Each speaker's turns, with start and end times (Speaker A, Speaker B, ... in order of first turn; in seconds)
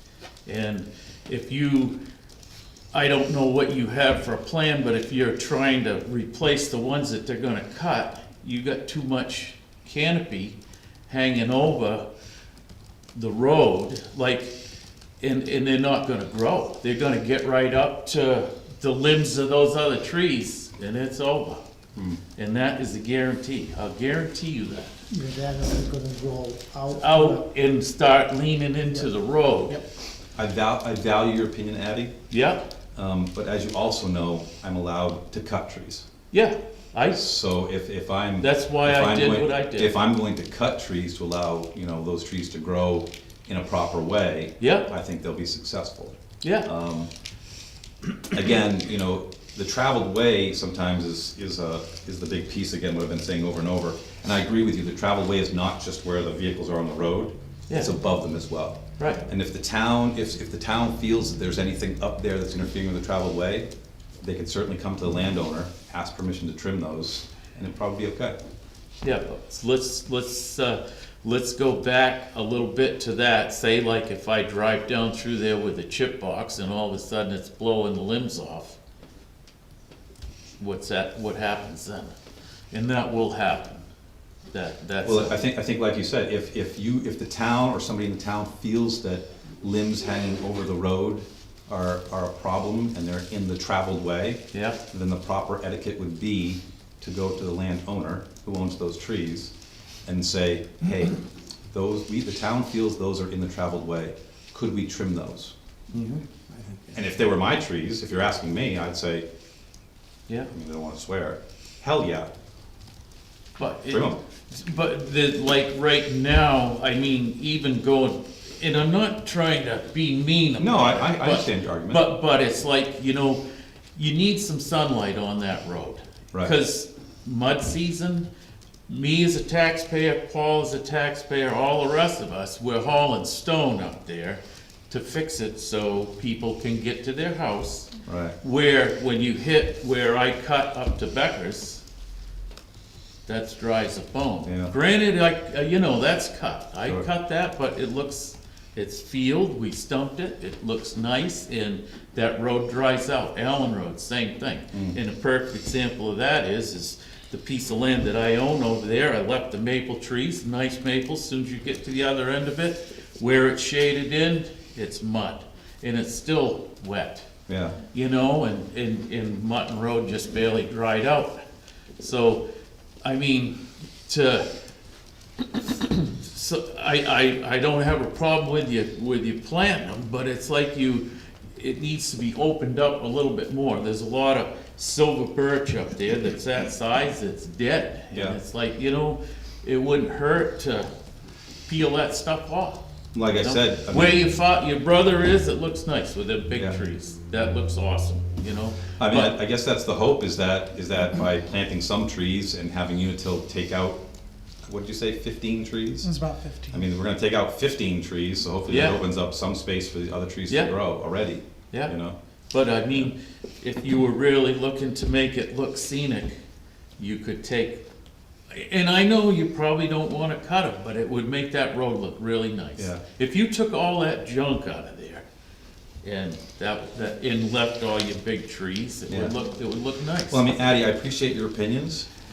Speaker A: 0.5-2.0, 2.9-10.6, 11.1-12.1, 13.2-14.6, 15.2-21.6, 22.4-24.9, 26.9-29.8, 32.3-32.6, 36.3-37.2, 38.4-40.0, 44.6-44.9, 46.4-46.7, 59.0-59.2, 69.0-78.8, 80.6-82.2, 82.7-83.9, 84.5-85.4, 94.5-94.8, 106.0-106.2, 113.6-123.4, 124.0-128.3, 128.9-141.8, 143.3-167.3, 167.9-171.4, 172.0-172.4, 173.0-174.5, 175.6-190.9, 191.7-199.3, 208.7-209.0, 210.5-210.7, 212.5-216.4, 217.0-217.8, 218.5-225.3, 226.0-230.5
Speaker B: 21.9-22.2, 30.4-32.1, 33.0-36.1, 37.1-47.1, 48.2-63.7, 64.2-68.4, 85.0-99.5, 100.0-101.2, 101.7-105.5, 106.9-109.2, 110.5-112.3, 113.9-114.2, 120.6-122.0, 138.1-138.4, 144.5-144.7, 154.7-155.0, 167.5-167.8, 193.1-194.2, 199.0-204.0, 204.7-212.2, 212.9-213.1, 222.8-223.0, 229.1-229.3, 230.3-232.1
Speaker C: 25.1-27.5, 206.1-206.6